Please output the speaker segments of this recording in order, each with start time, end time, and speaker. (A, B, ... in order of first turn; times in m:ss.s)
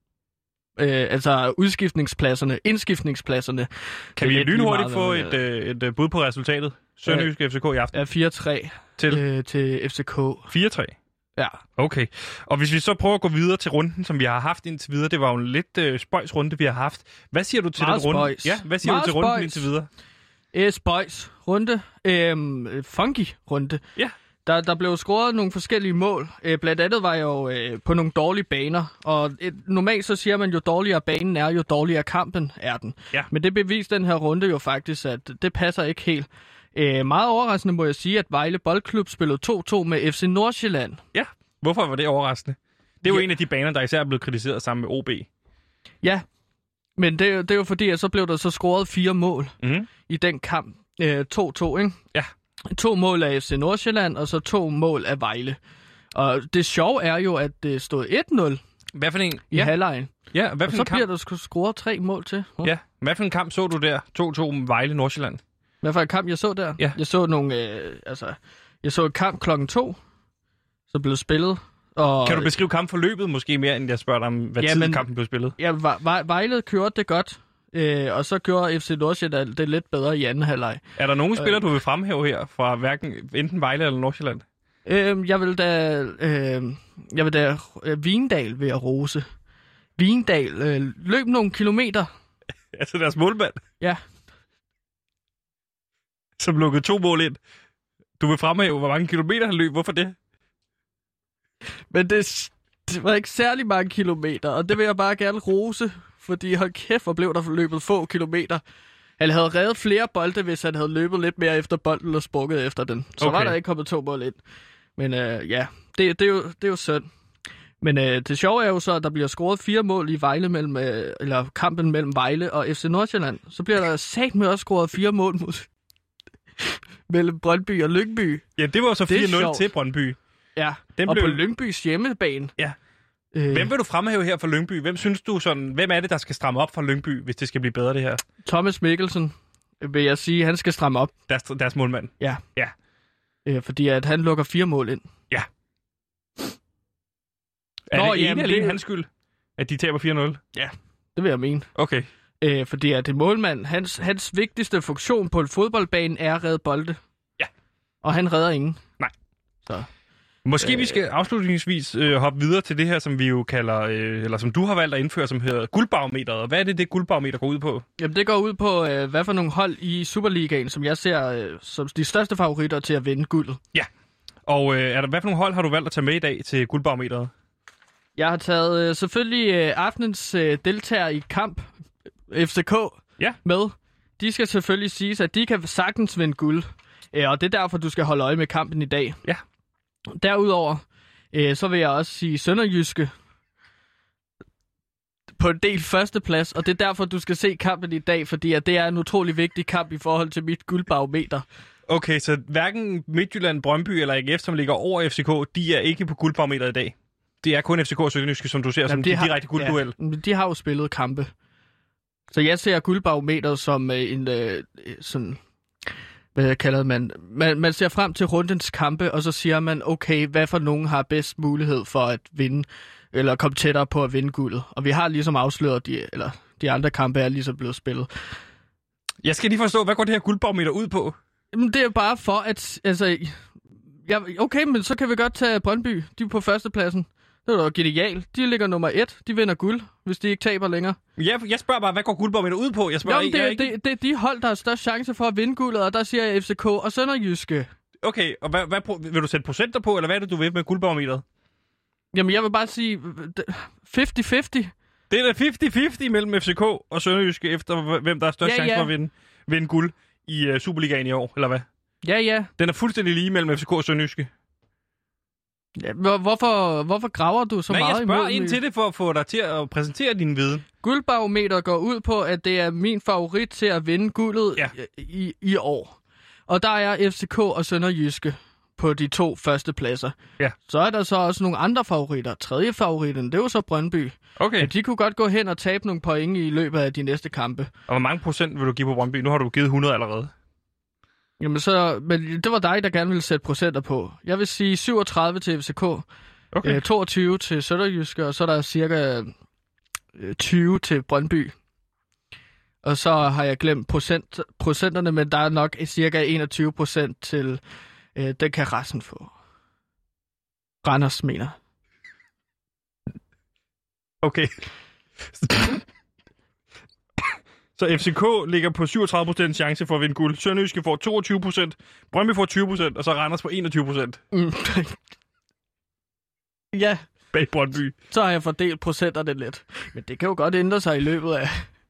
0:00.8-0:05.4 A
0:04.2-0:08.0 B
0:07.9-0:10.5 A
0:10.5-0:10.9 B
0:11.8-0:19.9 B
0:17.8-0:19.7 A
0:20.5-0:23.8 A
0:24.4-0:41.0 A
0:41.1-0:45.3 B
0:47.0-0:49.5 A
0:49.6-0:49.9 B
0:50.1-0:52.0 A
0:52.7-0:55.6 A
0:56.1-0:58.6 A
0:59.0-0:59.7 B
0:59.5-1:00.1 A
1:00.3-1:01.1 B
1:00.7-1:02.7 A
1:02.6-1:05.4 B
1:05.8-1:10.0 A
1:10.9-1:12.5 A
1:12.2-1:15.6 B
1:14.6-1:15.0 A
1:15.6-1:20.8 A
1:21.0-1:24.4 B
1:21.4-1:21.6 A
1:24.9-1:29.2 A
1:30.0-1:32.1 A
1:32.7-1:33.6 B
1:36.4-1:37.4 B
1:38.2-1:40.2 B
1:41.9-1:48.6 A
1:49.2-1:54.4 A
1:53.2-1:53.6 B
1:55.0-1:57.1 A
1:57.8-2:05.7 A
2:06.6-2:08.4 A
2:08.6-2:10.2 B
2:09.1-2:09.6 A
2:10.6-2:12.5 A
2:11.0-2:11.4 B
2:13.3-2:13.7 A
2:13.5-2:18.2 B
2:18.4-2:21.1 A
2:21.3-2:22.7 B
2:23.5-2:25.1 A
2:27.9-2:29.1 B
2:27.9-2:28.8 A
2:29.6-2:30.4 B
2:30.5-2:31.7 A
2:31.8-2:32.1 B
2:32.4-2:37.0 A
2:38.0-2:38.8 A
2:40.4-2:47.8 B
2:40.6-2:41.0 A
2:48.0-2:53.6 A
2:54.5-2:57.3 B
2:58.2-3:01.7 A
3:02.3-3:09.2 A
3:10.1-3:13.1 A
3:15.4-3:21.4 A
3:21.9-3:30.0 B
3:28.9-3:31.3 A
3:32.3-3:35.4 A
3:36.4-3:48.1 A
3:49.2-3:51.2 B
3:51.5-3:53.4 A
3:54.1-4:01.0 A
4:01.2-4:03.7 B
4:03.0-4:07.7 A
4:08.0-4:11.2 B
4:12.1-4:14.7 A
4:15.1-4:21.7 B
4:18.4-4:18.9 A
4:22.0-4:22.5 A
4:22.6-4:24.3 B
4:25.8-4:28.6 A
4:27.7-4:30.6 B
4:30.8-4:36.0 A
4:36.5-4:40.2 A
4:40.7-4:47.7 A
4:44.4-4:44.7 B
4:47.9-4:50.3 B
4:51.4-4:56.0 A
4:56.5-4:56.8 B
4:56.6-4:59.3 A
5:00.2-5:01.5 A
5:02.8-5:07.6 A
5:08.2-5:09.3 A
5:10.8-5:11.6 A
5:14.2-5:14.5 B
5:15.3-5:15.8 B
5:17.8-5:24.2 B
5:24.3-5:25.0 A
5:26.7-5:27.0 A
5:27.3-5:28.0 B
5:28.1-5:31.6 A